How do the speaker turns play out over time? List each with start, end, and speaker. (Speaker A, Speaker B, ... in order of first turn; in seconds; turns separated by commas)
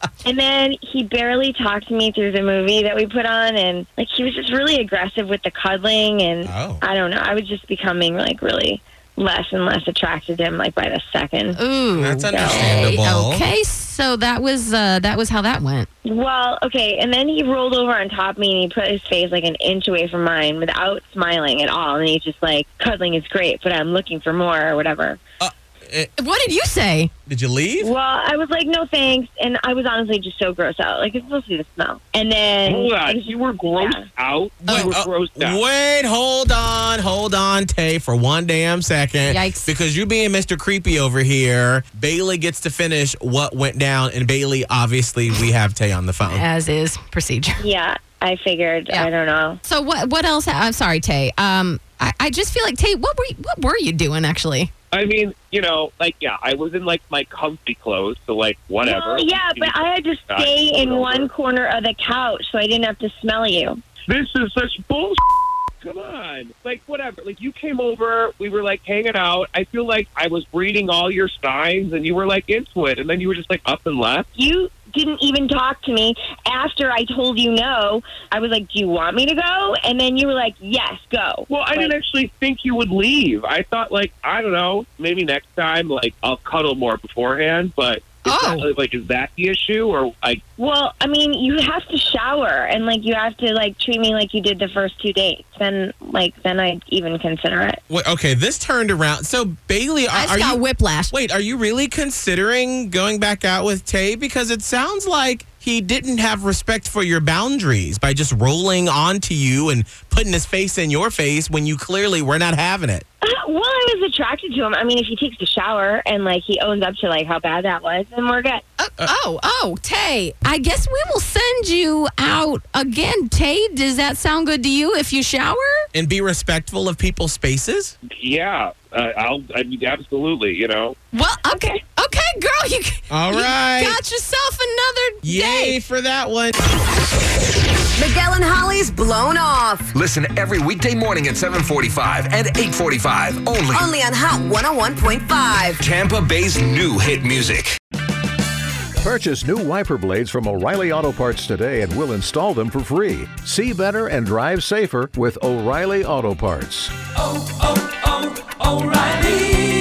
Speaker A: 0.2-11.6, Speaker B: 6.4-6.8, Speaker C: 11.6-15.9, Speaker B: 12.0-13.4, Speaker A: 12.3-12.8, Speaker A: 16.1-25.2, Speaker B: 25.4-26.1, Speaker C: 26.2-27.1, Speaker B: 27.3-27.9, Speaker A: 27.8-34.1, Speaker D: 32.6-35.6, Speaker B: 34.6-46.5, Speaker C: 39.3-39.7, Speaker C: 46.2-47.6, Speaker A: 47.6-49.6, Speaker C: 49.6-54.7, Speaker D: 54.9-61.3, Speaker A: 58.8-63.8, Speaker D: 64.1-65.3, Speaker D: 65.8-74.3, Speaker A: 74.3-82.0, Speaker D: 81.5-90.4, Speaker C: 88.2-88.7, Speaker A: 90.6-97.8, Speaker B: 97.9-113.0, Speaker C: 100.1-101.1, Speaker A: 113.2-118.6, Speaker C: 118.8-125.8, Speaker B: 125.9-127.9, Speaker D: 128.1-131.0, Speaker C: 131.1-135.8, Speaker A: 131.5-131.8, Speaker B: 133.1-134.0, Speaker B: 135.2-136.6, Speaker E: 138.0-140.0, Speaker F: 140.0-143.8, Speaker E: 143.7-145.8, Speaker F: 145.8-147.8, Speaker G: 149.0-156.9, Speaker G: 158.9-159.7